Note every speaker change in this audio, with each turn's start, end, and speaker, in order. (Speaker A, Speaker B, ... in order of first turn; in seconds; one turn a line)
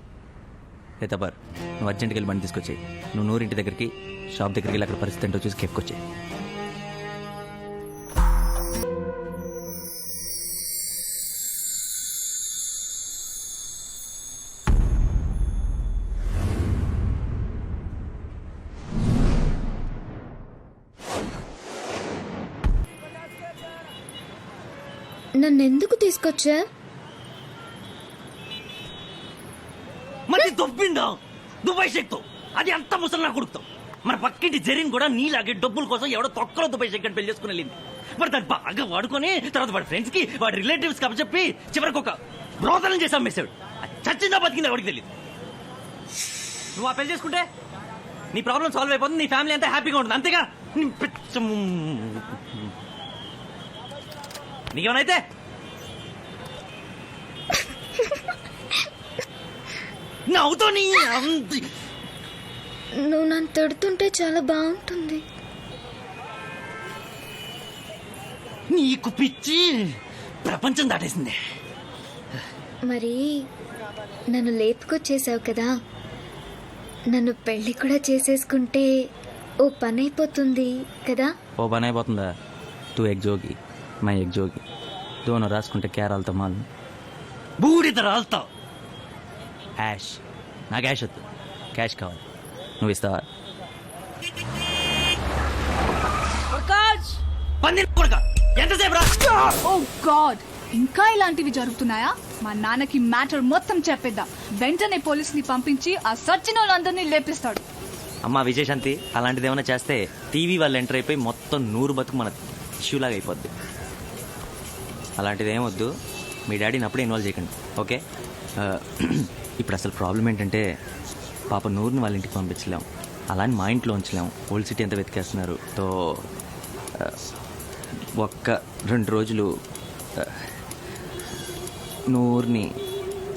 Speaker A: 1.0-6.0
Speaker B: 25.4-26.6
Speaker A: 30.3-45.1
Speaker A: 46.8-47.5
Speaker A: 48.3-52.6
Speaker A: 54.7-55.2
Speaker A: 60.3-61.6
Speaker B: 63.0-65.2
Speaker A: 68.7-69.9
Speaker A: 70.4-71.4
Speaker B: 72.9-73.2
Speaker B: 74.3-75.7
Speaker B: 77.1-78.9
Speaker B: 79.7-81.3
Speaker A: 81.6-82.3
Speaker A: 83.0-84.6
Speaker A: 85.3-86.7
Speaker A: 87.6-88.5
Speaker A: 89.8-91.2
Speaker A: 91.8-92.2
Speaker A: 92.8-93.2
Speaker A: 96.5-99.5
Speaker C: 99.6-107.6
Speaker A: 108.2-113.5
Speaker A: 115.2-115.9
Speaker A: 116.5-118.0
Speaker A: 118.6-120.6
Speaker A: 121.5-125.9
Speaker A: 128.2-129.5
Speaker A: 132.1-132.7